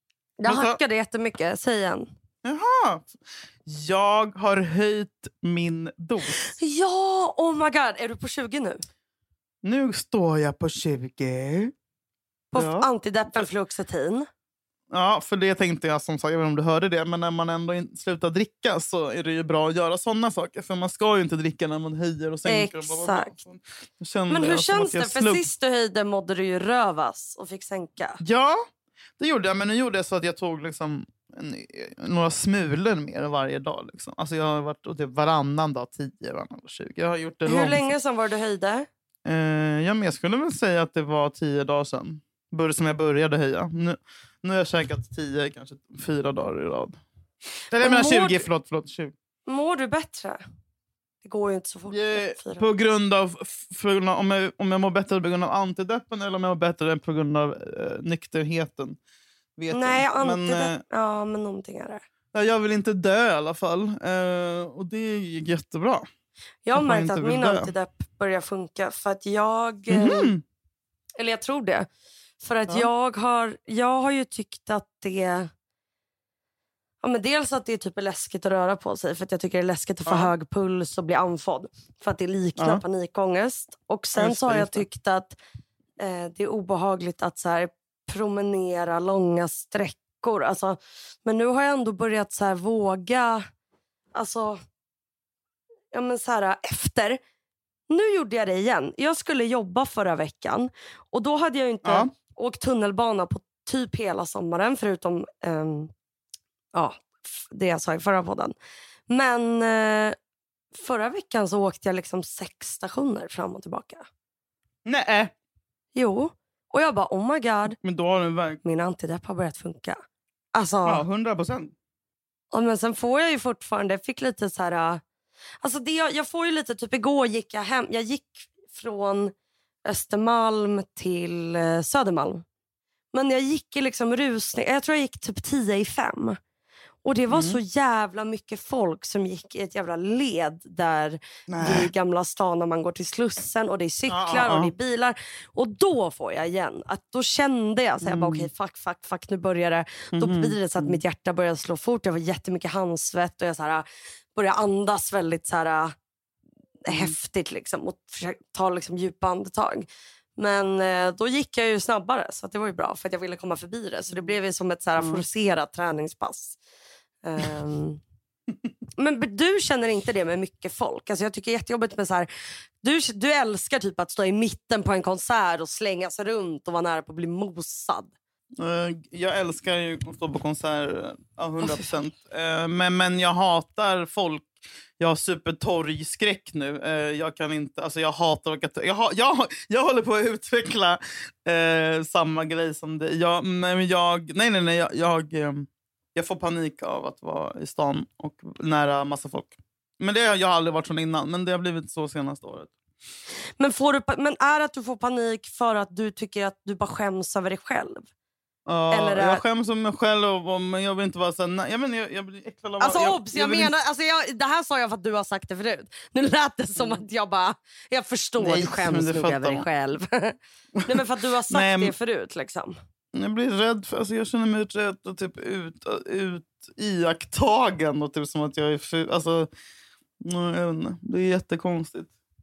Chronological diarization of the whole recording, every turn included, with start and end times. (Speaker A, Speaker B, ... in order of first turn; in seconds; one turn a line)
Speaker A: 0.4-2.1
Speaker B: 0.5-0.8
Speaker B: 2.4-3.1
Speaker B: 3.6-6.5
Speaker A: 6.4-8.8
Speaker B: 9.6-11.7
Speaker A: 12.5-14.3
Speaker B: 12.6-12.9
Speaker B: 14.9-25.4
Speaker A: 22.4-23.3
Speaker A: 24.3-28.2
Speaker B: 28.2-28.6
Speaker B: 29.2-37.9
Speaker A: 37.5-38.9
Speaker B: 39.3-47.0
Speaker B: 47.7-49.1
Speaker A: 47.8-48.5
Speaker A: 49.5-50.4
Speaker A: 51.2-52.6
Speaker B: 51.9-59.0
Speaker B: 59.6-60.8
Speaker A: 59.7-62.0
Speaker B: 62.3-66.1
Speaker A: 66.6-70.3
Speaker B: 66.7-67.7
Speaker B: 69.9-70.4
Speaker A: 71.2-71.9
Speaker A: 72.4-75.5
Speaker A: 77.0-85.4
Speaker B: 80.1-80.3
Speaker B: 82.6-82.8
Speaker B: 84.2-84.9
Speaker A: 86.0-93.5
Speaker A: 94.1-94.6
Speaker A: 95.9-97.2
Speaker A: 97.9-105.9
Speaker B: 101.8-102.1
Speaker A: 106.7-108.5
Speaker A: 109.1-110.2
Speaker A: 110.7-114.1
Speaker B: 114.8-115.3
Speaker A: 116.0-117.8
Speaker B: 117.8-118.6
Speaker A: 118.6-120.0
Speaker A: 120.5-121.0
Speaker B: 120.8-121.7
Speaker A: 122.5-125.0
Speaker A: 125.6-129.3
Speaker A: 129.9-132.4
Speaker A: 133.1-136.4
Speaker A: 137.0-155.9
Speaker B: 137.3-137.6
Speaker B: 141.5-141.9
Speaker B: 144.1-144.7
Speaker B: 148.0-148.5
Speaker B: 150.1-151.0
Speaker A: 156.9-159.9
Speaker B: 156.9-157.1
Speaker A: 160.4-166.6
Speaker B: 165.0-165.2
Speaker A: 167.2-168.0
Speaker A: 169.0-172.3
Speaker A: 172.8-178.1
Speaker B: 178.6-202.7
Speaker A: 181.6-181.9
Speaker A: 203.6-208.1
Speaker B: 208.7-213.7
Speaker A: 208.9-209.4
Speaker A: 212.8-222.8
Speaker B: 218.4-219.7
Speaker B: 221.5-221.9
Speaker B: 223.1-229.5
Speaker B: 230.2-232.1